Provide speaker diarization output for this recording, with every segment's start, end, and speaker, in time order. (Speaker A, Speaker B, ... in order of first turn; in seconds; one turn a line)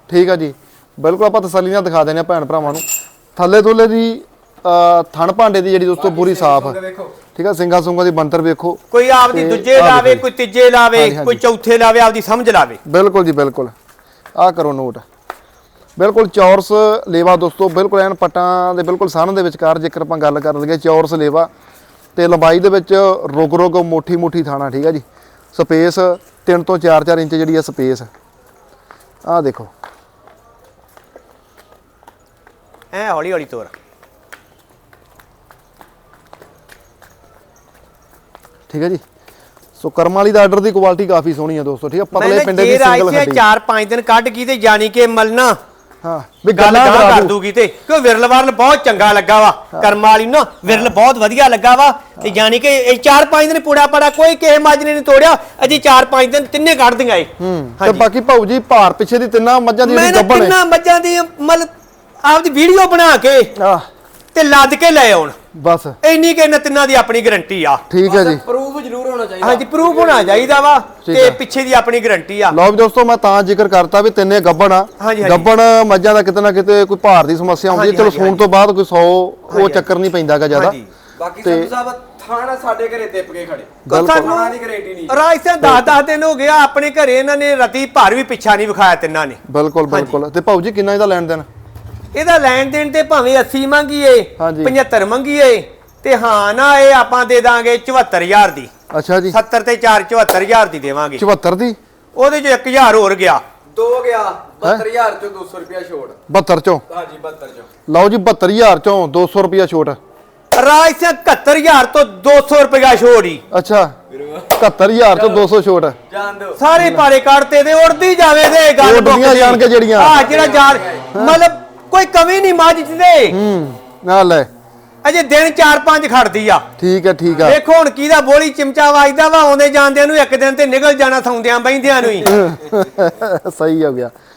Speaker A: 0.1-6.8
Speaker B: 6.0-7.2
Speaker A: 7.3-10.2
Speaker C: 8.9-12.8
Speaker A: 10.9-11.4
Speaker A: 12.8-13.7
Speaker A: 14.4-15.0
Speaker A: 16.0-21.5
Speaker A: 22.1-28.1
Speaker A: 29.2-29.7
Speaker C: 32.9-33.7
Speaker A: 38.7-39.0
Speaker A: 39.8-43.4
Speaker C: 42.1-45.6
Speaker A: 46.0-47.3
Speaker C: 46.5-58.1
Speaker A: 50.7-50.9
Speaker A: 57.4-60.5
Speaker C: 59.8-61.7
Speaker C: 62.2-63.5
Speaker A: 63.6-63.9
Speaker C: 64.3-65.4
Speaker A: 65.5-66.0
Speaker C: 66.0-67.8
Speaker A: 67.9-68.4
Speaker B: 68.1-70.6
Speaker C: 69.4-72.6
Speaker A: 71.0-71.4
Speaker A: 72.5-80.8
Speaker C: 75.0-75.5
Speaker C: 77.7-78.5
Speaker C: 79.5-79.9
Speaker C: 80.5-80.9
Speaker B: 81.2-85.2
Speaker A: 81.4-81.7
Speaker A: 83.9-84.3
Speaker C: 83.9-84.6
Speaker C: 85.1-90.2
Speaker A: 85.6-86.0
Speaker A: 89.5-91.5
Speaker C: 92.1-98.7
Speaker A: 94.4-94.8
Speaker A: 98.9-99.4
Speaker C: 99.3-101.2
Speaker A: 101.2-101.8
Speaker C: 102.2-103.4
Speaker B: 103.7-106.2
Speaker A: 106.3-106.8
Speaker B: 106.9-107.7
Speaker A: 107.9-110.0
Speaker C: 110.5-113.4
Speaker A: 113.5-114.0
Speaker B: 114.1-114.6
Speaker A: 114.6-116.0
Speaker B: 115.1-115.5
Speaker B: 116.1-116.6
Speaker C: 116.6-123.4
Speaker A: 116.8-117.1
Speaker A: 118.8-120.2
Speaker B: 120.0-121.1
Speaker A: 121.1-121.4
Speaker A: 123.3-124.5
Speaker C: 125.0-126.7
Speaker A: 126.8-127.6
Speaker C: 127.4-132.4
Speaker A: 132.2-134.1